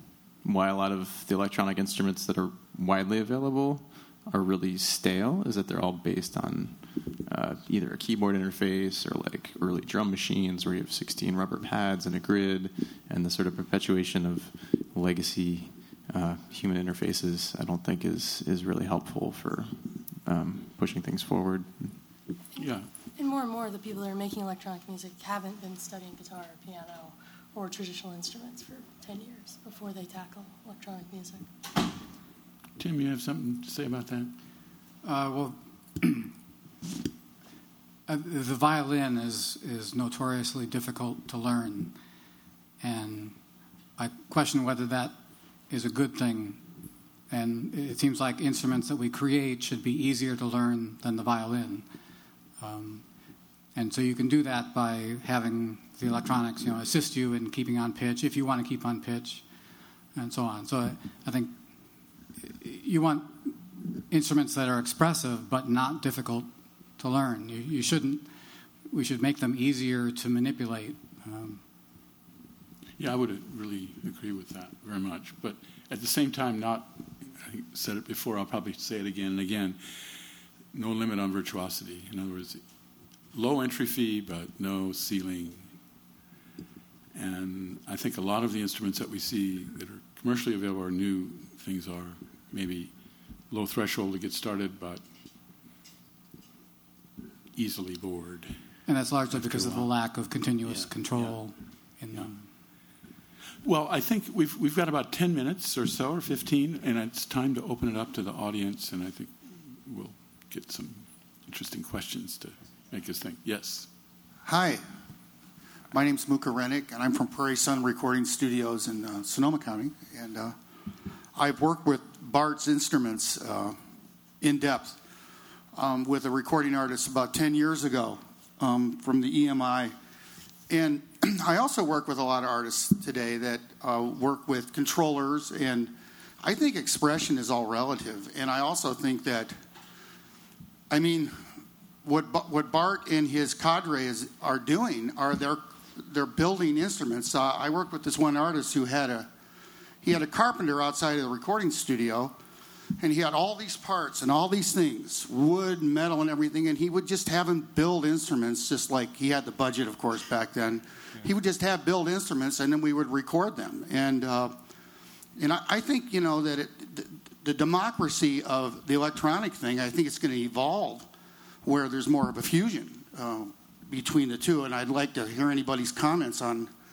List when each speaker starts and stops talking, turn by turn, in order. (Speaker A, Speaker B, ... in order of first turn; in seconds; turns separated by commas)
Speaker A: 0.4-22.0, Speaker B: 22.6-22.9, Speaker C: 23.2-31.5, Speaker B: 32.8-34.4, Speaker D: 35.0-36.3, Speaker D: 38.1-42.0, Speaker D: 42.8-43.4, Speaker D: 44.0-45.2, Speaker D: 45.7-46.6, Speaker D: 47.3-51.9, Speaker D: 52.6-53.0, Speaker D: 53.8-59.4, Speaker D: 60.1-61.5, Speaker D: 62.4-63.6, Speaker D: 64.1-68.3, Speaker D: 68.9-71.6, Speaker B: 73.0-80.2, Speaker B: 80.7-82.6, Speaker B: 83.3-85.7, Speaker B: 87.1-92.9, Speaker B: 93.5-95.0, Speaker B: 97.6-98.6, Speaker D: 98.9-102.5, Speaker B: 99.3-99.9, Speaker B: 100.7-101.4, Speaker B: 103.6-113.9, Speaker E: 114.5-114.8, Speaker E: 115.9-120.6, Speaker E: 121.3-123.8, Speaker E: 124.4-125.0, Speaker E: 125.7-129.9, Speaker E: 130.7-139.6, Speaker E: 140.9-141.5, Speaker E: 142.1-149.3, Speaker E: 150.0-152.4, Speaker E: 153.0-164.6, Speaker E: 165.4-171.1, Speaker E: 171.6-176.7